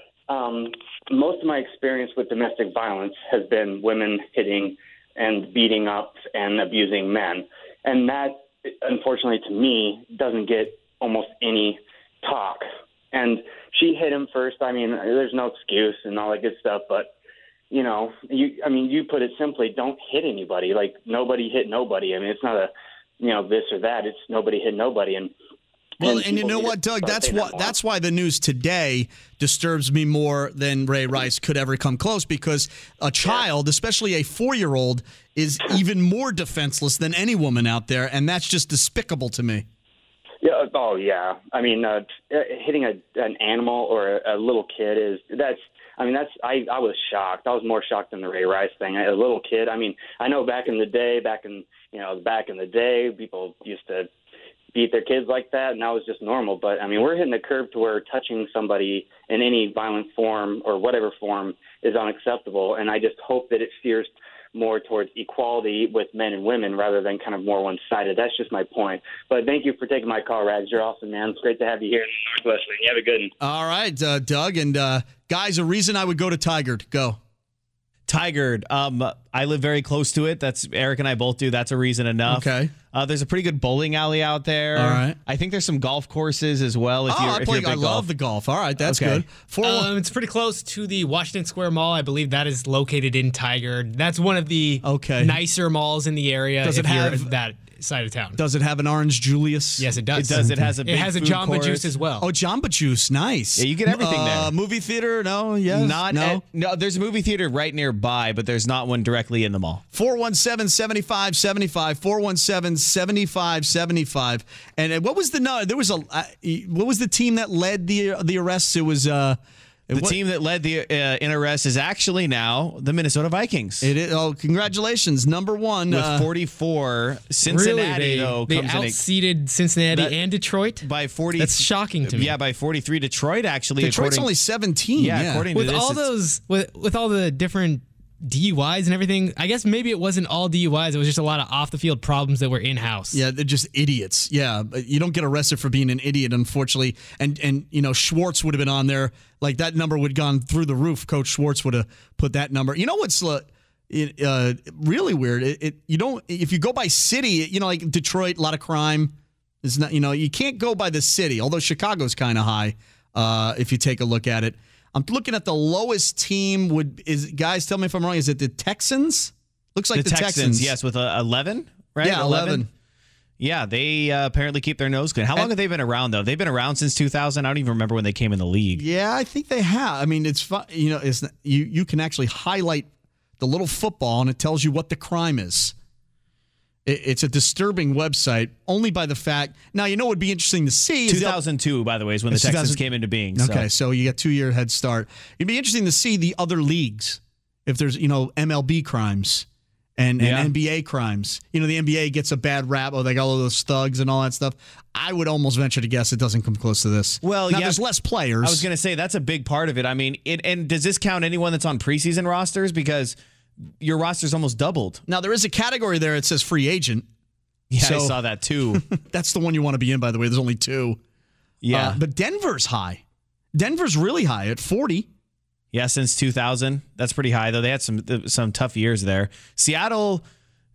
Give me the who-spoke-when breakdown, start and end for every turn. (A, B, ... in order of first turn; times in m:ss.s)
0:00.3-0:17.1 A
0:17.7-0:25.3 A
0:26.0-0:27.7 A
0:26.0-0:39.6 B
0:40.4-0:54.1 A
0:54.7-1:13.3 A
1:13.4-1:17.2 B
1:18.1-1:28.1 C
1:22.3-1:22.7 B
1:24.8-1:25.2 B
1:27.1-1:29.9 B
1:28.8-1:29.2 C
1:29.6-1:38.4 D
1:34.8-1:35.4 B
1:36.6-1:37.3 B
1:38.4-1:40.7 B
1:39.8-1:42.3 D
1:40.1-1:41.9 C
1:42.2-1:46.4 B
1:43.6-1:44.5 C
1:45.7-1:49.8 C
1:49.9-2:00.2 B
1:59.9-2:03.9 C
2:03.8-2:06.3 B
2:05.9-2:09.0 C
2:07.5-2:12.3 D
2:09.9-2:10.2 C
2:10.8-2:14.3 C
2:13.8-2:15.4 B
2:15.0-2:16.1 C
2:15.5-2:23.2 D
2:23.1-2:50.7 B
2:50.0-2:52.6 C
2:52.0-2:52.7 B
2:53.4-2:58.8 C
2:58.8-3:02.9 B
3:03.4-3:05.8 B
3:06.8-3:11.4 B
3:11.1-3:13.7 C
3:12.3-3:12.8 B
3:13.4-3:28.6 B
3:20.2-3:20.5 C
3:27.2-3:27.8 C
3:28.4-3:33.2 C
3:33.8-3:35.0 C
3:35.1-3:37.1 B
3:37.7-3:38.8 C
3:37.8-3:38.2 B
3:38.7-3:41.0 B
3:41.6-3:42.0 C
3:41.7-3:43.0 B
3:43.5-3:45.1 B
3:45.7-3:50.2 C